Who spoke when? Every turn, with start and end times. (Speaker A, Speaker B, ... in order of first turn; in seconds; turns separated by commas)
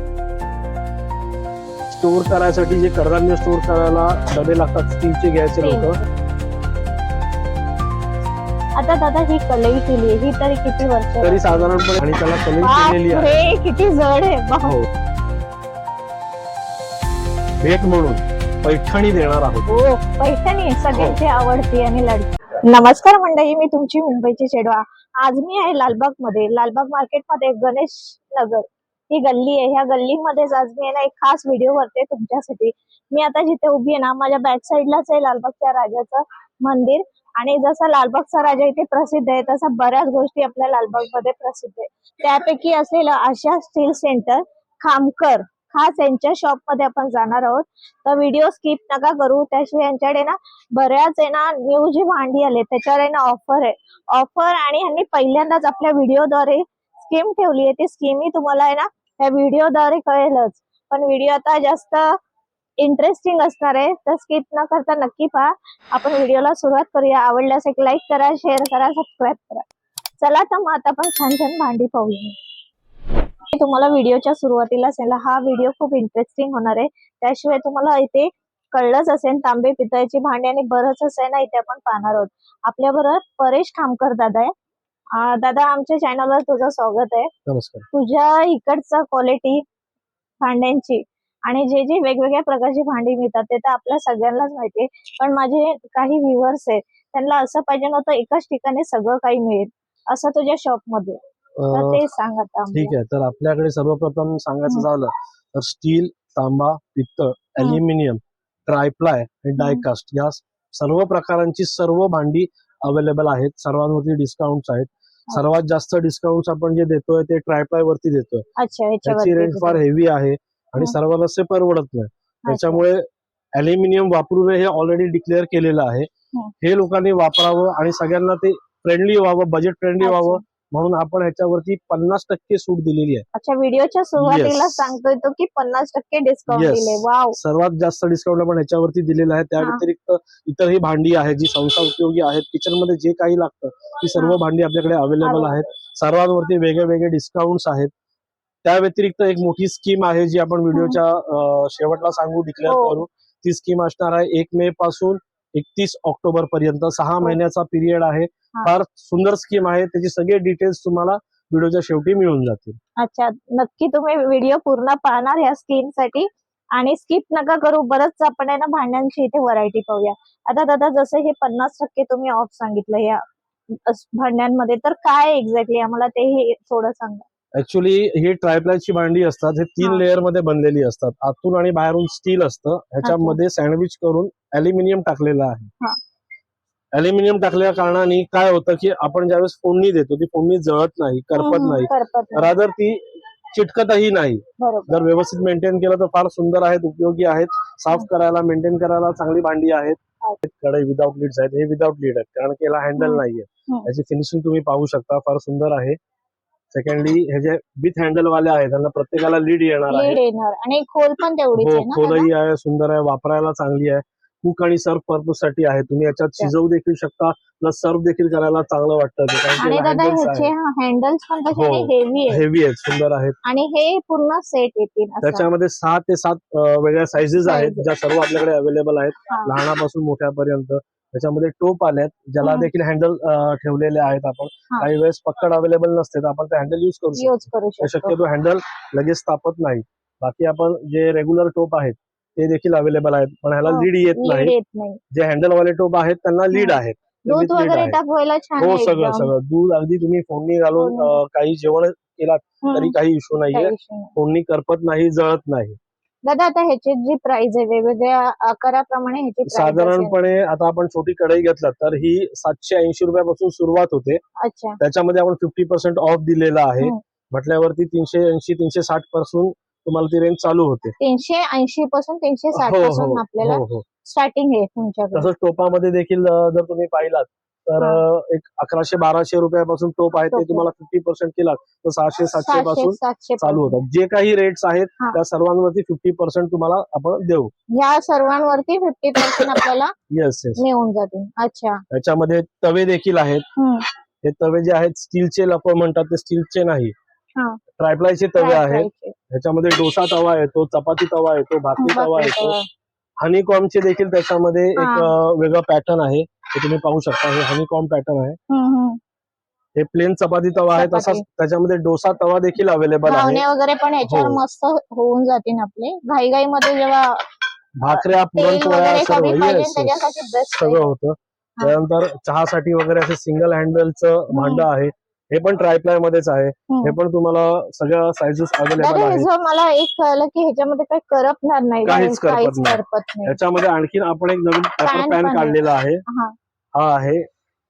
Speaker A: 1.9-6.0, Speaker B: 5.6-6.0, Speaker B: 8.8-11.7, Speaker A: 11.2-13.4, Speaker B: 12.6-14.7, Speaker A: 17.6-19.7, Speaker B: 19.7-62.1, Speaker A: 20.9-21.2, Speaker B: 62.8-69.6, Speaker B: 70.2-72.3, Speaker B: 73.5-84.5, Speaker B: 85.1-87.3, Speaker A: 87.5-87.9, Speaker B: 87.9-89.6, Speaker B: 90.4-101.2, Speaker A: 101.6-102.0, Speaker B: 101.7-102.9, Speaker A: 102.7-118.5, Speaker B: 109.6-109.8, Speaker B: 118.5-119.8, Speaker A: 119.0-123.0, Speaker B: 122.4-122.8, Speaker A: 123.5-126.1, Speaker A: 126.6-133.2, Speaker B: 130.0-130.4, Speaker B: 133.3-137.4, Speaker A: 134.2-134.9, Speaker A: 136.5-147.9, Speaker B: 145.2-145.7, Speaker A: 148.6-162.8, Speaker B: 150.7-151.0, Speaker B: 152.7-153.0, Speaker B: 163.0-177.2, Speaker A: 177.6-185.7, Speaker B: 183.0-183.4, Speaker A: 186.9-193.0, Speaker B: 191.3-192.5, Speaker A: 193.5-206.0, Speaker B: 194.6-195.0, Speaker B: 203.0-203.9, Speaker A: 206.7-210.2, Speaker B: 209.9-212.3, Speaker A: 211.6-220.5, Speaker B: 219.6-222.4, Speaker A: 221.5-223.4, Speaker B: 223.4-225.5, Speaker A: 225.2-244.5, Speaker B: 227.4-227.8, Speaker B: 229.3-229.5, Speaker B: 232.4-232.7, Speaker B: 237.2-238.2, Speaker B: 243.7-245.0, Speaker A: 245.1-248.0, Speaker B: 246.5-249.3, Speaker A: 248.6-255.8, Speaker B: 250.8-251.1, Speaker B: 252.6-252.9, Speaker B: 253.5-254.2, Speaker B: 256.2-260.1, Speaker A: 259.5-264.2, Speaker B: 264.4-264.8, Speaker A: 264.8-270.9, Speaker B: 271.0-275.3, Speaker A: 272.6-273.8, Speaker A: 275.1-287.5, Speaker B: 280.3-280.6, Speaker B: 282.4-283.8, Speaker B: 287.7-289.9, Speaker A: 290.1-290.6, Speaker B: 290.6-291.8, Speaker A: 291.9-293.4, Speaker B: 293.6-293.9, Speaker A: 294.2-296.9, Speaker A: 297.8-302.6, Speaker B: 298.4-299.1, Speaker B: 301.8-302.6, Speaker A: 303.2-308.4, Speaker B: 304.8-305.1, Speaker B: 308.5-309.0, Speaker A: 309.8-313.4, Speaker B: 310.7-311.2, Speaker B: 313.1-317.2, Speaker A: 314.0-314.4, Speaker A: 317.8-320.0, Speaker B: 317.9-320.9, Speaker A: 320.5-329.3, Speaker B: 324.3-324.7, Speaker B: 326.7-327.0, Speaker B: 328.8-333.4, Speaker A: 331.9-336.0, Speaker B: 334.8-336.3, Speaker A: 336.7-337.2